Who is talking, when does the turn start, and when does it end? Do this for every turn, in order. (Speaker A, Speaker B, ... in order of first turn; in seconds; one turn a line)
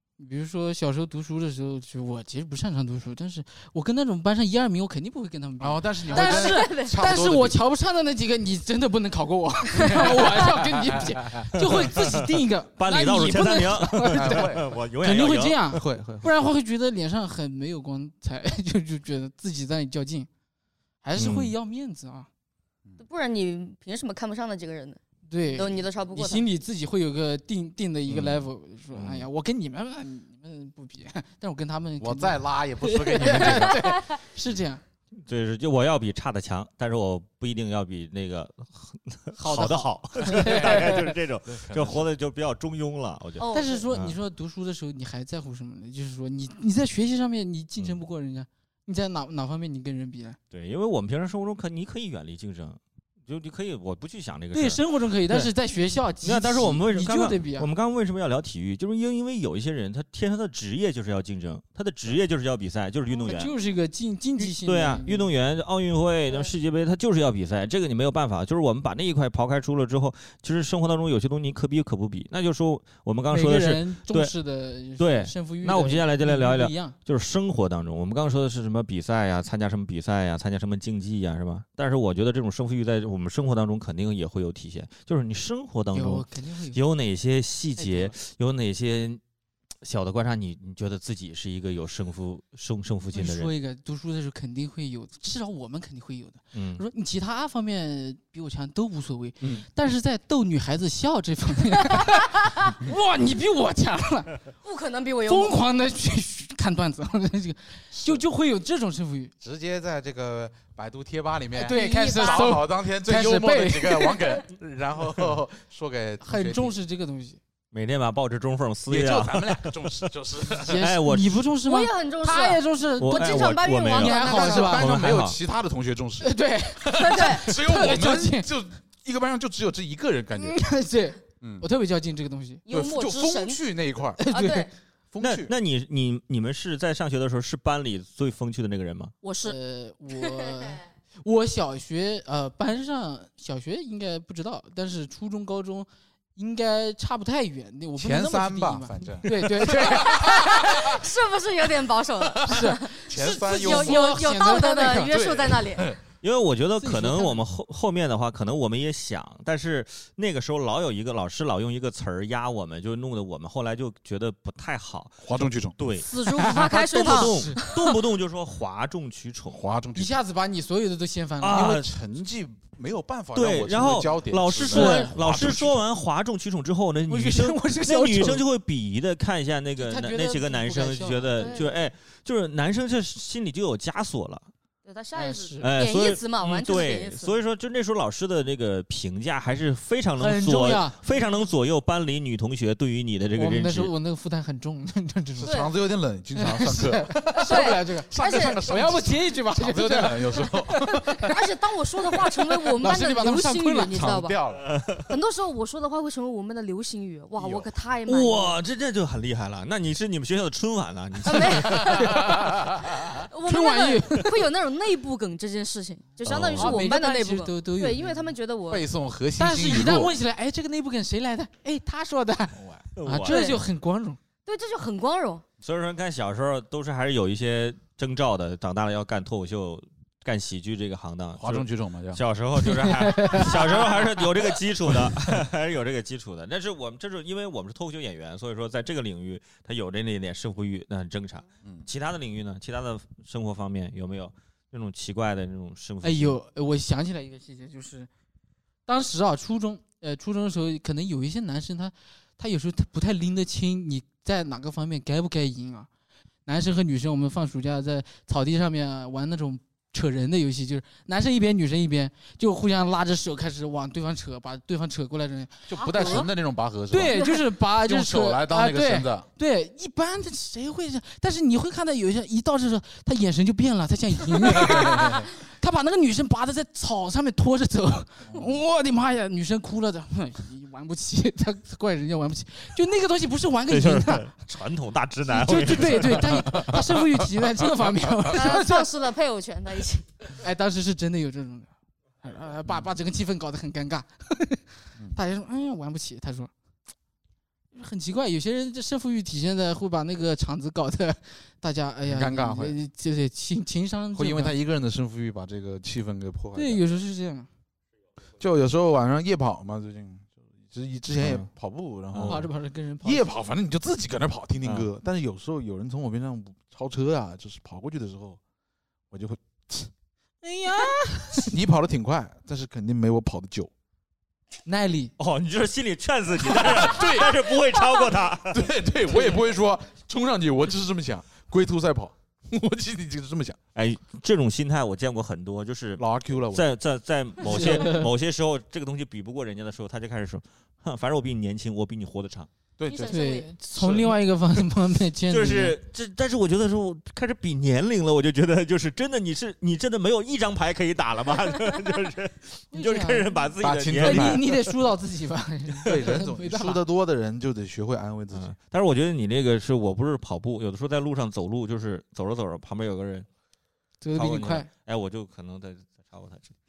Speaker A: 0.2-20.3
Speaker B: 5.6-7.6
Speaker C: 6.1-7.1
Speaker C: 9.9-10.2
Speaker B: 9.9-11.4
Speaker D: 11.6-12.2
Speaker D: 12.8-15.8
Speaker B: 14.1-14.7
Speaker B: 15.7-16.3
Speaker A: 21.0-22.3
Speaker D: 21.2-21.5
Speaker C: 23.0-25.0
Speaker A: 25.3-34.8
Speaker C: 25.5-26.5
Speaker D: 28.1-29.3
Speaker B: 32.0-34.0
Speaker D: 35.2-44.1
Speaker A: 39.4-41.1
Speaker B: 40.2-42.1
Speaker C: 43.4-43.9
Speaker A: 43.5-50.4
Speaker D: 50.5-55.5
Speaker A: 54.5-57.7
Speaker D: 56.2-63.5
Speaker A: 63.2-65.3
Speaker D: 64.4-74.3
Speaker A: 73.3-76.9
Speaker D: 75.0-89.2
Speaker A: 85.9-86.8
Speaker A: 87.8-88.1
Speaker D: 89.8-93.5
Speaker A: 93.1-104.4
Speaker D: 96.5-96.8
Speaker C: 104.6-105.6
Speaker A: 105.2-109.3
Speaker B: 107.9-108.2
Speaker B: 109.4-116.7
Speaker A: 111.5-114.4
Speaker C: 111.7-112.6
Speaker A: 116.2-117.4
Speaker D: 117.7-119.9
Speaker B: 118.9-120.8
Speaker A: 120.6-124.8
Speaker D: 120.6-121.4
Speaker C: 121.6-124.8
Speaker D: 123.0-125.3
Speaker B: 124.2-130.6
Speaker A: 126.2-128.5
Speaker C: 127.0-127.5
Speaker A: 130.3-132.6
Speaker B: 131.4-131.7
Speaker C: 132.7-133.6
Speaker B: 132.7-134.2
Speaker A: 134.2-134.7
Speaker C: 134.3-134.7
Speaker B: 135.1-135.5
Speaker D: 135.2-139.1
Speaker C: 139.2-139.6
Speaker A: 139.4-150.3
Speaker C: 140.2-140.7
Speaker B: 147.9-151.0
Speaker C: 149.8-156.0
Speaker A: 152.5-155.2
Speaker B: 152.6-154.2
Speaker B: 155.0-156.0
Speaker D: 156.2-169.6
Speaker A: 156.8-157.4
Speaker B: 165.2-165.8
Speaker C: 166.0-167.9
Speaker A: 166.3-167.6
Speaker B: 169.5-170.1
Speaker A: 169.9-171.8
Speaker D: 171.4-171.9
Speaker B: 171.5-175.8
Speaker D: 173.3-184.5
Speaker A: 174.7-175.2
Speaker A: 177.1-178.4
Speaker A: 179.8-181.6
Speaker C: 181.4-181.7
Speaker C: 184.8-187.3
Speaker A: 185.1-185.7
Speaker D: 185.6-193.9
Speaker A: 190.2-191.0
Speaker A: 193.3-195.6
Speaker B: 195.4-201.3
Speaker C: 195.4-195.7
Speaker A: 196.3-201.3
Speaker C: 197.4-198.6
Speaker C: 201.2-204.3
Speaker A: 202.1-204.1
Speaker B: 203.9-204.7
Speaker D: 204.7-205.0
Speaker C: 205.1-208.6
Speaker B: 207.4-207.7
Speaker D: 208.1-212.1
Speaker C: 211.2-218.8
Speaker B: 212.2-213.2
Speaker A: 213.4-214.3
Speaker D: 216.2-216.8
Speaker A: 216.5-218.2
Speaker B: 218.7-220.1
Speaker A: 219.4-224.2
Speaker B: 222.6-222.8
Speaker D: 222.9-223.6
Speaker C: 223.3-223.6
Speaker C: 224.4-225.4
Speaker D: 225.6-246.4
Speaker B: 231.3-232.2
Speaker A: 232.6-233.8
Speaker A: 246.0-248.1
Speaker A: 248.9-255.9
Speaker A: 256.4-266.2
Speaker B: 265.7-269.3
Speaker C: 265.8-266.3
Speaker A: 266.9-284.3
Speaker C: 267.1-267.4
Speaker B: 274.5-275.3
Speaker B: 278.3-278.5
Speaker D: 283.7-286.6
Speaker A: 285.3-288.9
Speaker C: 288.3-290.1
Speaker A: 290.4-291.7
Speaker A: 292.2-296.5
Speaker A: 297.7-304.5
Speaker B: 302.1-302.8
Speaker B: 304.1-306.8
Speaker A: 306.5-307.5
Speaker B: 308.4-312.5
Speaker D: 311.2-311.5
Speaker D: 312.1-312.4
Speaker A: 312.2-313.3
Speaker B: 313.0-318.4
Speaker D: 314.6-314.9
Speaker B: 319.1-319.9
Speaker A: 320.4-321.5
Speaker B: 321.4-323.7
Speaker A: 324.6-325.1
Speaker D: 325.2-328.6
Speaker B: 326.4-327.5
Speaker B: 328.5-333.6
Speaker D: 333.7-342.5
Speaker B: 336.0-336.7
Speaker A: 337.4-338.1
Speaker B: 342.8-343.2
Speaker C: 342.8-343.5
Speaker A: 343.1-345.8
Speaker B: 343.8-344.1
Speaker D: 345.3-354.7
Speaker A: 352.7-353.3
Speaker B: 353.6-354.4
Speaker A: 354.0-356.8
Speaker B: 355.8-358.5
Speaker D: 358.3-363.3
Speaker A: 364.0-364.7
Speaker D: 364.1-366.5